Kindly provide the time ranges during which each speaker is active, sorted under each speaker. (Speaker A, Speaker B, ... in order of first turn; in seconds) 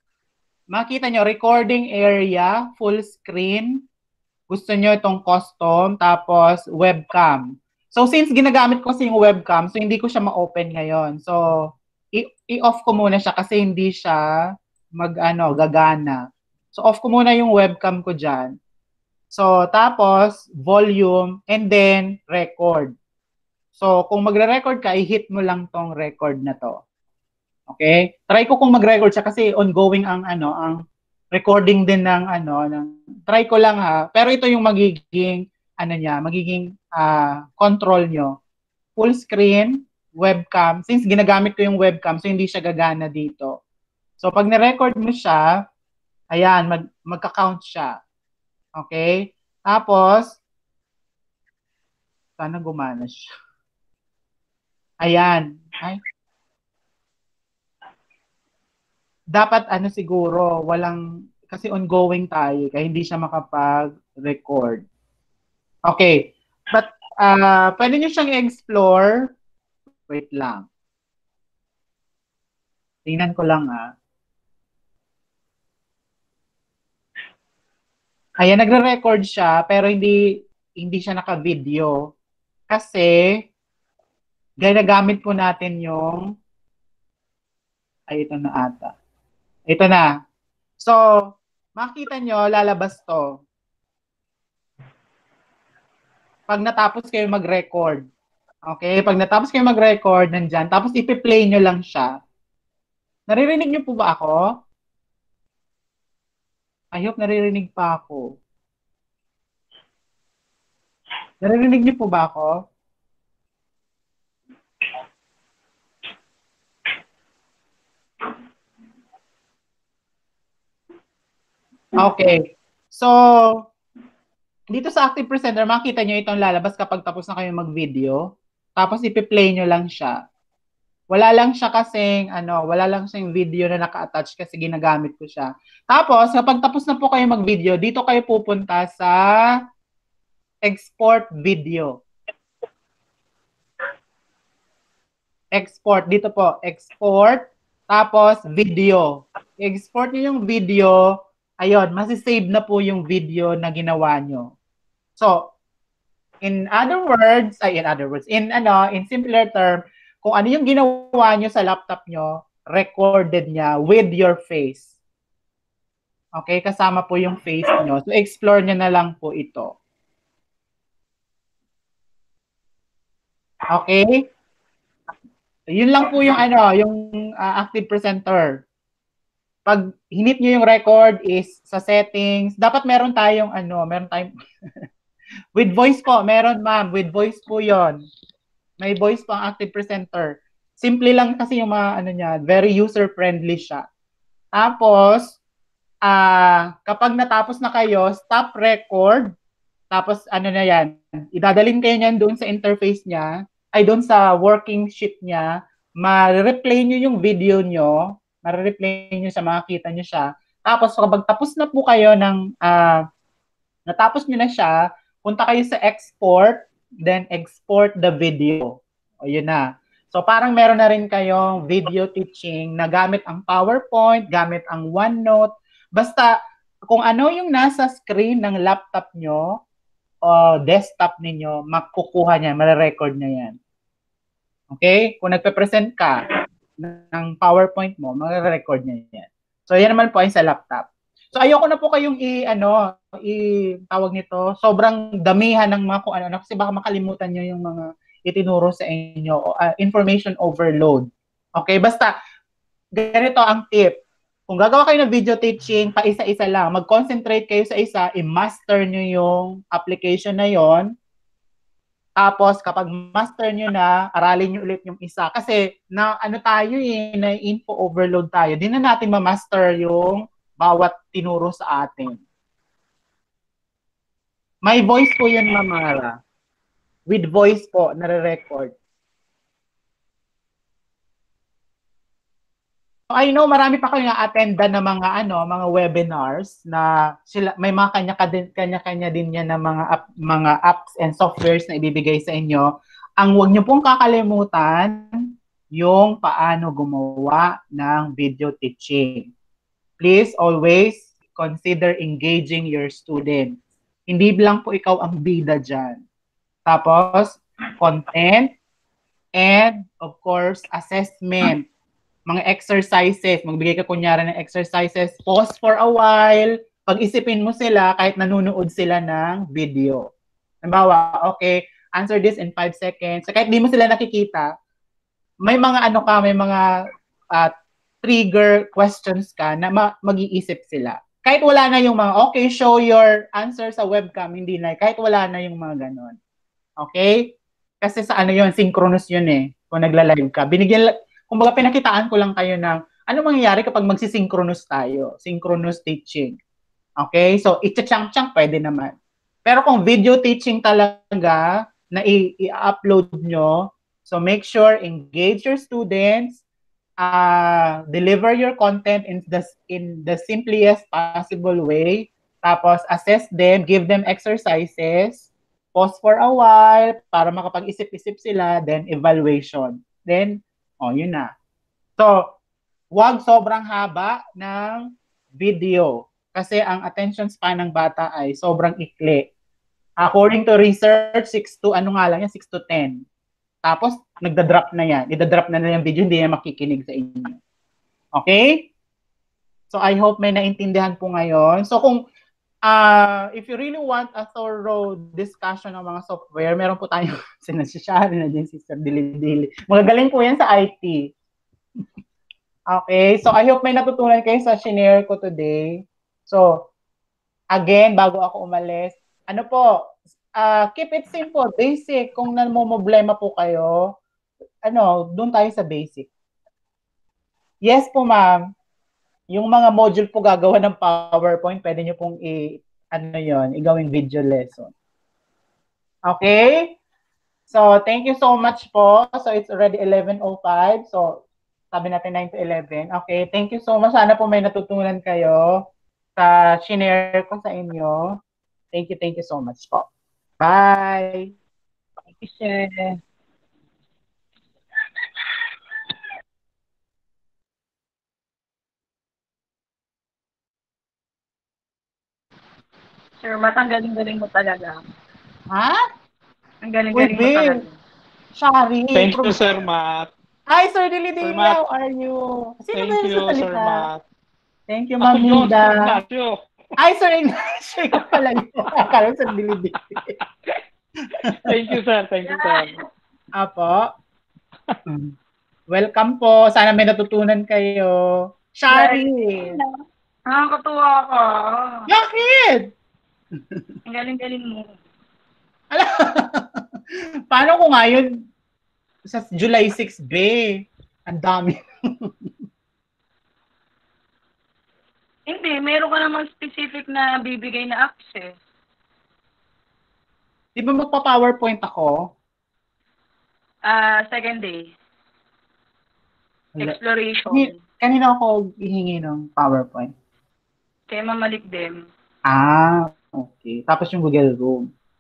Speaker A: 0.7-3.8, 4.5-14.2, 15.0-16.2, 16.7-18.6, 19.3-22.9, 23.8-26.8, 27.7-30.8, 31.3-38.4, 39.0-43.6, 44.2-45.5, 46.3-48.0, 48.8-50.4, 52.4-53.2, 55.0-56.0, 59.3-64.8, 65.9-69.3, 70.1-70.7, 73.1-73.9, 78.4-80.2, 80.8-82.0, 82.7-83.2, 84.6-86.2, 88.1-88.9, 89.7-90.1, 91.8-93.4, 96.5-98.0, 98.7-102.1, 103.3-104.4, 106.9-108.4, 111.4-112.6, 122.0-123.6, 124.7-128.2, 128.8-130.2, 131.1-139.2, 140.7-142.0, 145.5-154.5, 155.2-155.5, 156.4-164.9, 166.4-169.7, 173.7-174.2, 175.7-178.6, 179.7-184.3, 185.6-188.0, 188.8-193.8, 194.6-195.4, 196.1-199.3, 199.9-213.0, 213.9-226.3, 226.9-229.6, 230.2-233.6, 234.7-236.2, 236.8-252.1, 253.0-260.9, 262.2-272.2, 274.6-276.2, 277.1-278.7, 283.1-295.1, 295.8-299.3, 300.0-303.6, 304.1-306.0, 306.7-308.5, 309.4-311.6, 312.3-320.1, 320.6-324.5, 325.4-326.7, 328.0-336.2, 336.8-346.4, 347.0-348.9, 349.5-356.4, 357.0-371.3, 372.9-379.3, 380.0-383.0, 383.6-387.4, 388.2-388.7, 389.7-392.0, 392.6-401.1, 402.7-406.7, 407.5-414.0, 414.7-416.1, 417.7-418.4, 419.3-424.7, 426.1-426.8, 427.5-435.6, 436.2-438.2, 438.7-439.9, 440.4-441.3, 455.5-455.8, 456.9-457.6, 458.4-459.5, 460.5-463.9, 464.7-466.0, 466.8-470.1, 471.2-471.7, 473.4-473.9, 475.7-479.6, 481.9-482.7, 485.7-486.6, 487.3-488.2, 489.1-492.1, 500.6-502.0, 507.3-509.9, 512.3-514.7
Speaker B: 442.2-443.0, 453.2-454.8, 456.6-457.7, 472.2-472.8, 478.7-481.9, 483.9-484.8, 495.3-498.3, 503.7-504.7, 506.6-507.6, 510.9-511.9
Speaker C: 458.9-460.1, 461.2-461.6, 462.7-464.0, 465.0-466.4, 471.3-472.8